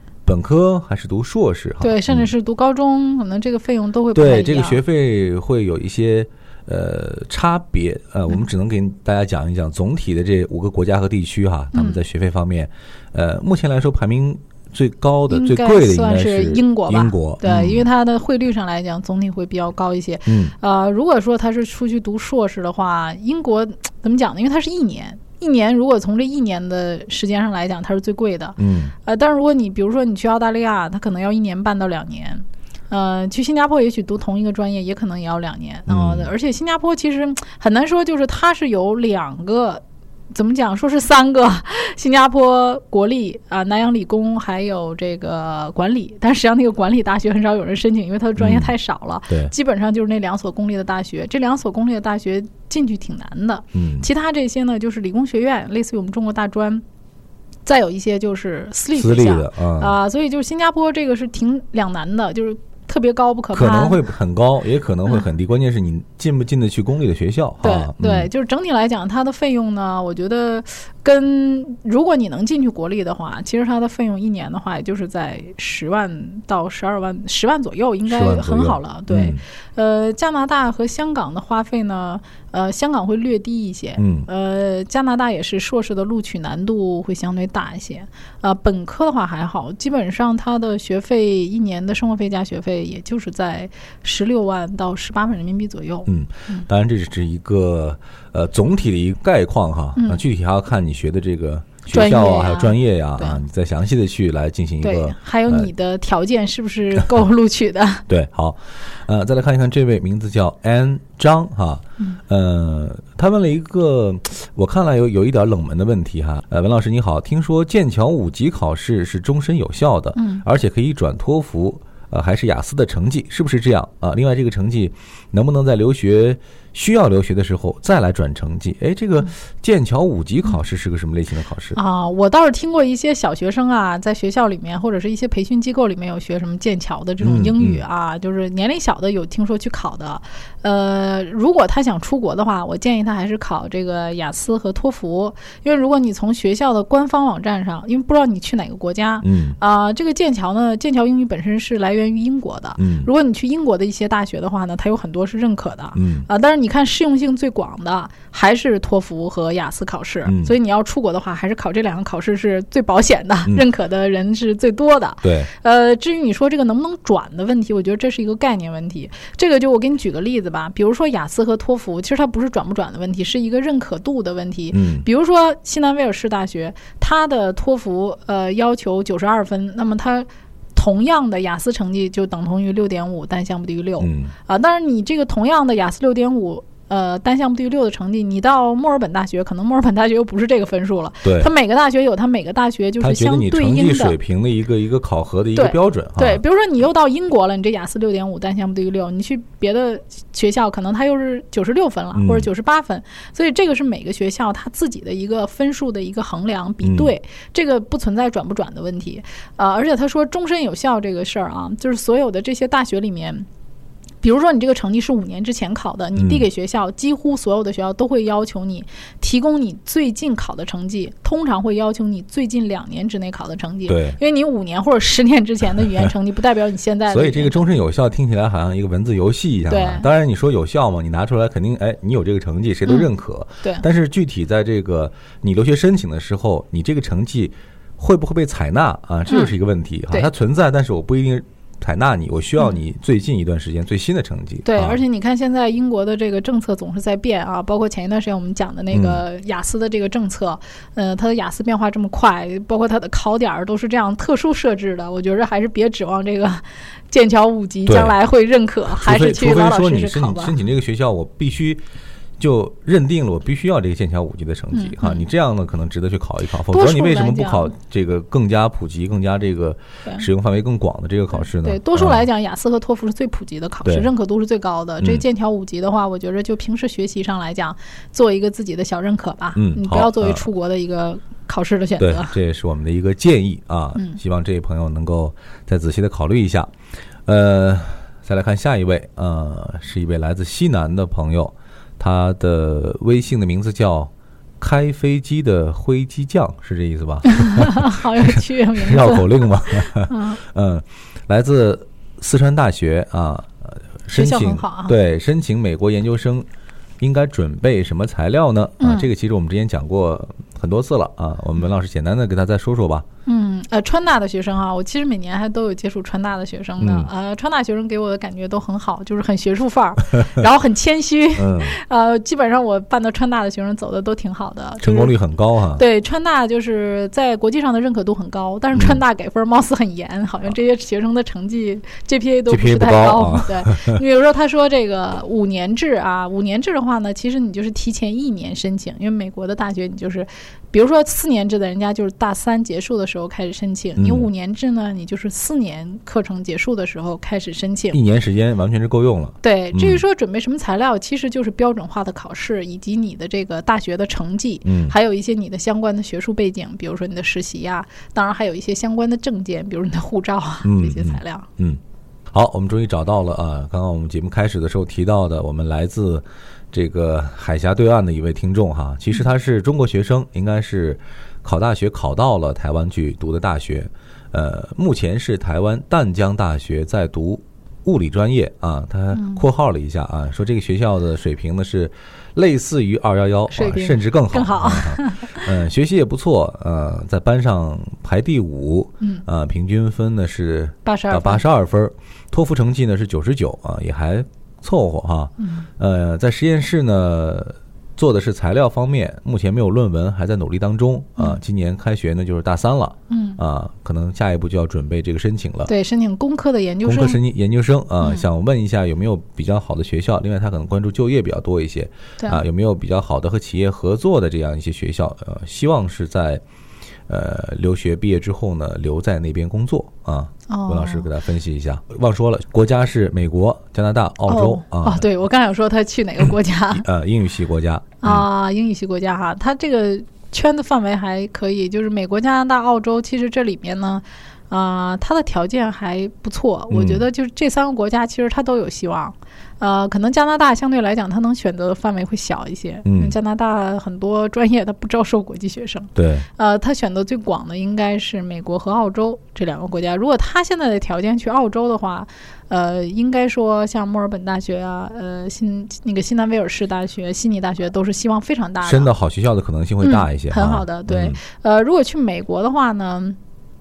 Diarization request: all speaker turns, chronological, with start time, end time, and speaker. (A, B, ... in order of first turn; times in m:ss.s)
0:00.3-0:02.3 A
0:01.8-0:04.8 B
0:04.1-0:17.9 A
0:11.7-0:12.0 B
0:15.3-0:56.8 B
0:20.3-0:20.6 A
0:28.6-0:28.9 A
0:35.9-0:36.3 A
0:48.4-0:48.7 A
0:53.7-0:54.1 A
0:57.6-1:04.0 B
0:58.9-1:00.0 A
1:03.5-1:08.3 A
1:07.6-1:36.7 B
1:18.1-1:19.4 A
1:24.0-1:24.3 A
1:36.1-1:45.7 A
1:40.0-1:40.2 B
1:41.9-1:43.4 B
1:44.8-1:48.0 B
1:48.1-2:11.8 A
2:00.2-2:00.4 B
2:11.8-3:14.2 B
2:17.2-2:17.8 A
2:29.2-2:29.6 A
2:32.8-2:33.1 A
2:36.0-2:36.3 A
2:40.2-2:40.5 A
2:45.2-2:45.5 A
2:54.7-2:55.1 A
3:04.0-3:04.3 A
3:11.2-3:11.5 A
3:13.0-3:16.4 A
3:15.6-3:33.5 B
3:22.2-3:22.5 A
3:26.8-3:27.1 A
3:34.2-3:47.7 B
3:36.2-3:36.5 A
3:43.9-3:44.2 A
3:47.1-4:05.0 A
3:49.7-3:50.1 B
3:52.8-3:53.1 B
3:59.3-3:59.6 B
4:04.6-4:20.6 B
4:08.9-4:09.2 A
4:17.9-4:18.2 A
4:18.9-4:21.8 A
4:22.4-4:32.3 A
4:24.7-4:25.3 B
4:26.7-4:27.7 B
4:31.4-4:42.4 B
4:33.8-4:34.1 A
4:39.6-4:40.5 A
4:42.0-4:46.7 A
4:44.0-4:44.2 B
4:47.3-5:06.5 A
4:57.3-5:00.4 B
5:04.1-5:05.0 B
5:07.0-5:13.1 A
5:08.8-5:09.1 B
5:13.3-5:25.1 B
5:16.8-5:17.1 A
5:21.4-5:21.8 A
5:24.8-5:25.8 A
5:25.8-5:48.0 B
5:28.7-5:29.0 A
5:32.5-5:34.0 A
5:44.0-5:44.3 A
5:47.9-5:50.0 A
5:49.4-6:01.5 B
5:54.6-5:55.0 A
6:00.6-6:01.8 A
6:02.3-6:45.7 A
6:19.1-6:19.4 B
6:23.5-6:25.5 B
6:30.8-6:31.5 B
6:35.4-6:35.7 B
6:43.1-6:43.4 B
6:45.7-6:47.2 B
6:46.8-6:56.4 A
6:48.0-6:48.3 B
6:57.1-7:05.1 A
7:00.5-7:01.1 B
7:04.3-7:06.8 B
7:06.7-7:08.3 A
7:08.0-7:38.9 B
7:16.7-7:17.1 A
7:22.8-7:23.2 A
7:26.0-7:26.3 A
7:38.6-7:41.2 A
7:39.8-7:43.2 B